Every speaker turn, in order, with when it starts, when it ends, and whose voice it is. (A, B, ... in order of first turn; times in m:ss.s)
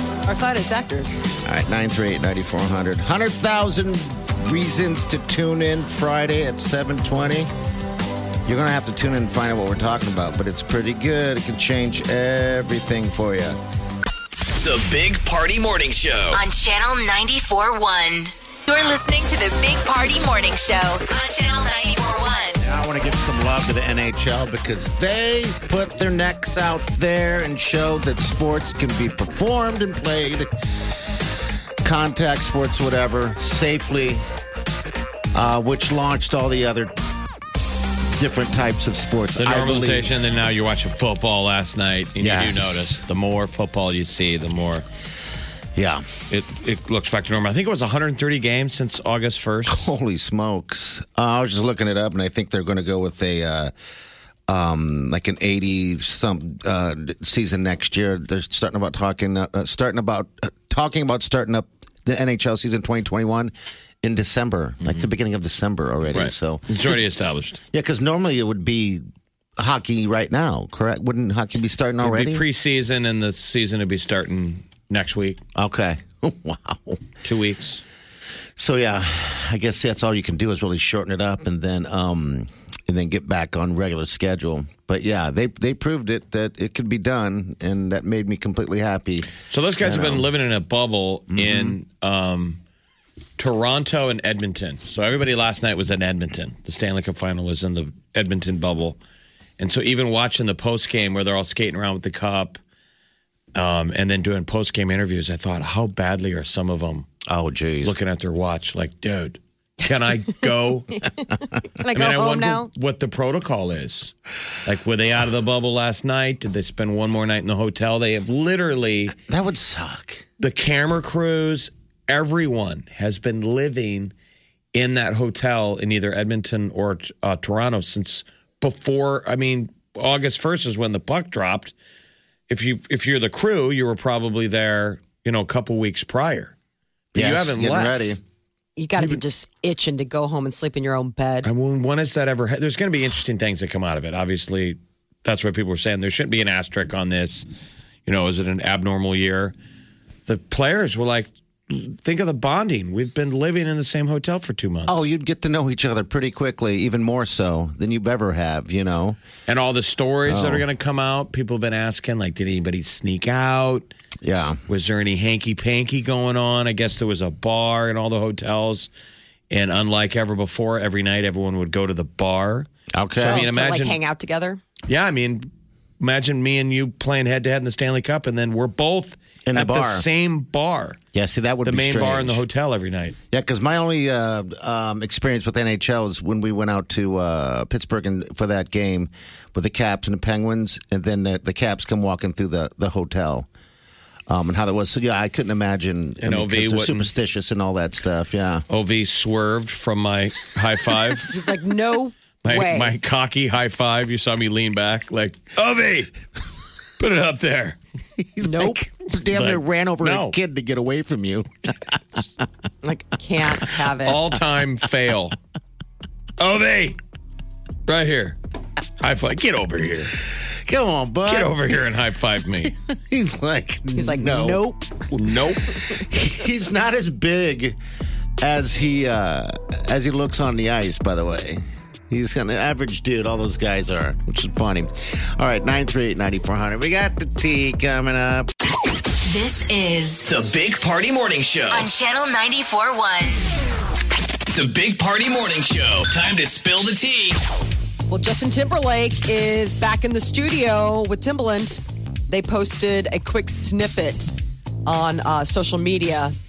0:00.2-0:01.2 A
0:01.4-0:07.5 B
0:08.4-0:13.6 B
0:14.6-0:16.4 C
0:16.3-0:22.6 D
0:22.6-0:30.5 B
0:31.8-0:34.2 B
0:35.3-0:36.9 B
0:38.1-0:40.1 B
0:39.4-0:44.8 E
0:42.2-0:43.0 B
0:45.8-0:46.0 B
0:46.3-0:49.8 E
0:49.7-0:53.7 B
0:54.5-1:07.0 B
1:06.1-1:07.6 E
1:07.7-1:09.0 B
1:09.6-1:12.4 B
1:12.0-1:15.4 E
1:15.5-1:17.0 B
1:17.2-1:17.8 E
1:18.6-1:30.3 B
1:29.5-1:32.6 E
1:31.3-1:31.8 B
1:33.4-1:39.0 E
1:39.6-1:42.6 E
1:43.5-1:47.1 E
1:47.3-1:47.9 B
1:47.8-1:51.0 E
1:51.8-1:52.7 A
1:51.9-1:54.1 E
1:54.6-1:59.1 E
1:59.2-2:00.2 B
2:00.4-2:04.1 E
2:04.7-2:11.7 E
2:12.5-2:16.5 E
2:17.1-2:18.2 B
2:17.1-2:18.2 E
2:18.8-2:21.5 A
2:21.4-2:27.4 E
2:28.0-2:29.5 E
2:30.2-2:35.0 E
2:34.9-2:39.2 B
2:39.5-2:43.9 E
2:40.3-2:40.6 B
2:44.2-2:44.6 B
2:44.7-2:48.9 E
2:49.5-2:52.7 E
2:52.9-2:53.4 B
2:53.2-2:54.0 E
2:53.2-2:54.6 A
2:54.9-3:01.0 E
2:59.5-3:00.0 B
3:01.1-3:02.4 B
3:01.6-3:03.2 E
3:03.3-3:13.5 B
3:14.3-3:18.6 B
3:16.2-3:17.1 E
3:18.7-3:21.3 E
3:21.3-3:22.9 A
3:22.4-3:26.1 E
3:27.0-3:27.8 E
3:28.2-3:31.5 B
3:28.4-3:28.8 A
3:29.3-3:30.3 E
3:32.8-3:34.2 A
3:34.0-3:35.4 E
3:36.4-3:37.0 E
3:37.9-3:38.4 E
3:39.0-3:40.1 E
3:40.6-3:41.8 B
3:41.2-3:42.7 E
3:42.6-3:44.6 B
3:43.9-3:44.8 A
3:45.1-3:45.6 E
3:45.9-3:47.8 B
3:48.4-3:58.5 B
3:59.3-4:00.2 D
4:00.2-4:01.9 C
4:01.7-4:03.5 D
4:04.5-4:07.4 C
4:08.1-4:14.3 A
4:14.8-4:16.3 A